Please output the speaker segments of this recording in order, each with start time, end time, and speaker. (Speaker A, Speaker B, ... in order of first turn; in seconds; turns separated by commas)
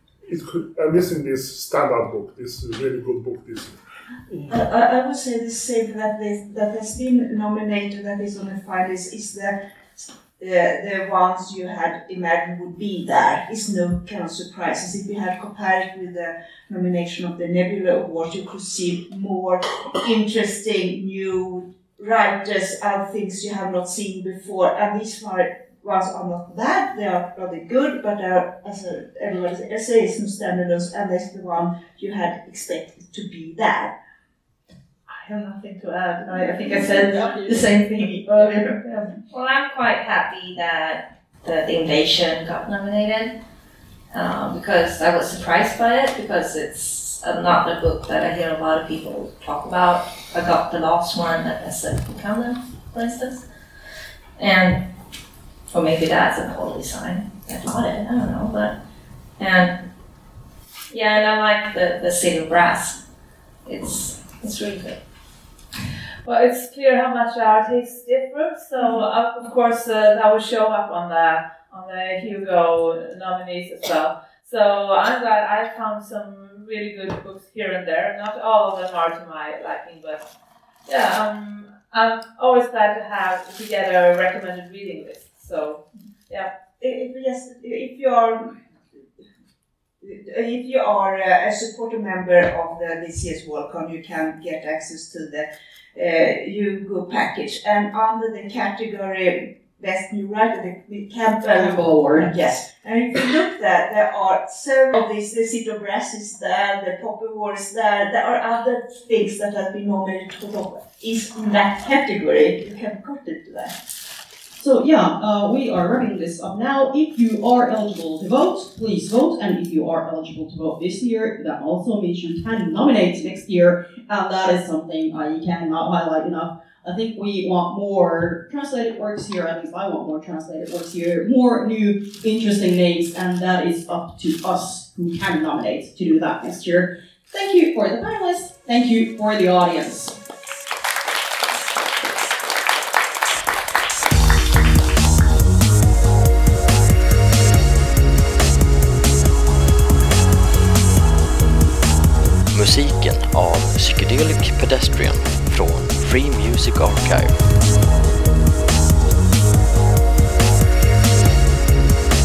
Speaker A: 0.2-4.6, Speaker B: 4.5-33.9, Speaker C: 35.1-39.1, Speaker D: 36.4-37.7, Speaker E: 39.3-43.3, Speaker E: 44.1-53.5, Speaker E: 54.4-54.8, Speaker E: 55.7-58.7, Speaker E: 59.4-59.8, Speaker E: 60.9-63.0, Speaker E: 63.6-65.0, Speaker F: 66.2-80.2, Speaker F: 80.9-86.5, Speaker B: 86.8-88.6, Speaker B: 90.0-113.8, Speaker D: 101.6-102.3, Speaker D: 114.6-140.2, Speaker G: 152.5-157.4